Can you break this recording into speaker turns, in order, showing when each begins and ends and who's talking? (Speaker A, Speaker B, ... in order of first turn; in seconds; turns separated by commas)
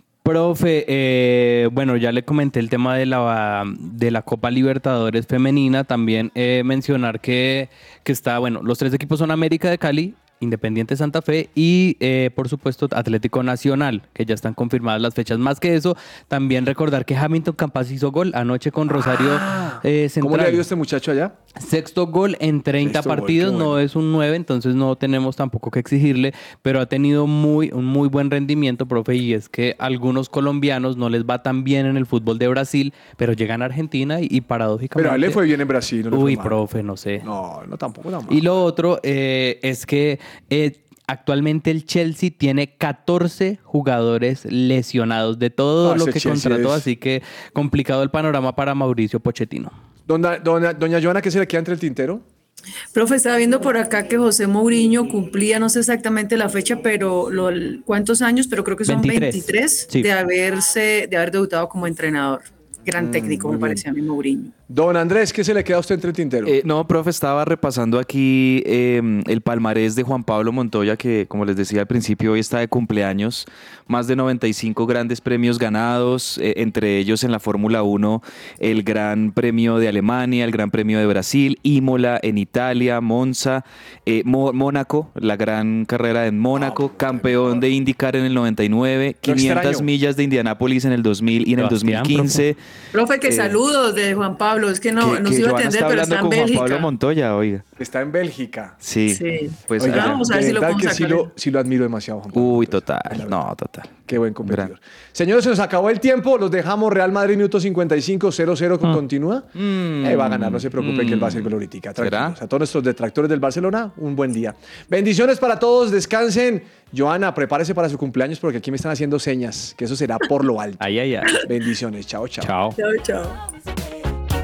Speaker A: 0.2-20.6, Speaker B: 18.9-21.3, Speaker A: 21.6-35.4, Speaker B: 22.8-23.8, Speaker B: 35.0-36.6, Speaker A: 36.1-37.2, Speaker B: 37.2-38.5, Speaker A: 38.3-49.7, Speaker B: 45.8-46.9, Speaker B: 50.1-52.2, Speaker C: 52.9-64.5, Speaker A: 58.9-60.1, Speaker B: 62.9-63.8, Speaker B: 64.7-66.6, Speaker D: 66.5-92.6, Speaker B: 86.5-87.6, Speaker B: 89.2-89.9, Speaker A: 91.6-92.4, Speaker C: 92.9-96.9, Speaker D: 93.2-93.6, Speaker D: 95.0-97.6, Speaker B: 97.8-98.8, Speaker D: 98.8-100.2, Speaker C: 99.1-101.3, Speaker B: 99.8-103.4, Speaker D: 102.3-104.7, Speaker B: 104.1-109.5, Speaker D: 109.5-112.4, Speaker B: 110.0-122.5, Speaker A: 120.8-121.3, Speaker A: 122.4-122.8, Speaker C: 122.8-123.4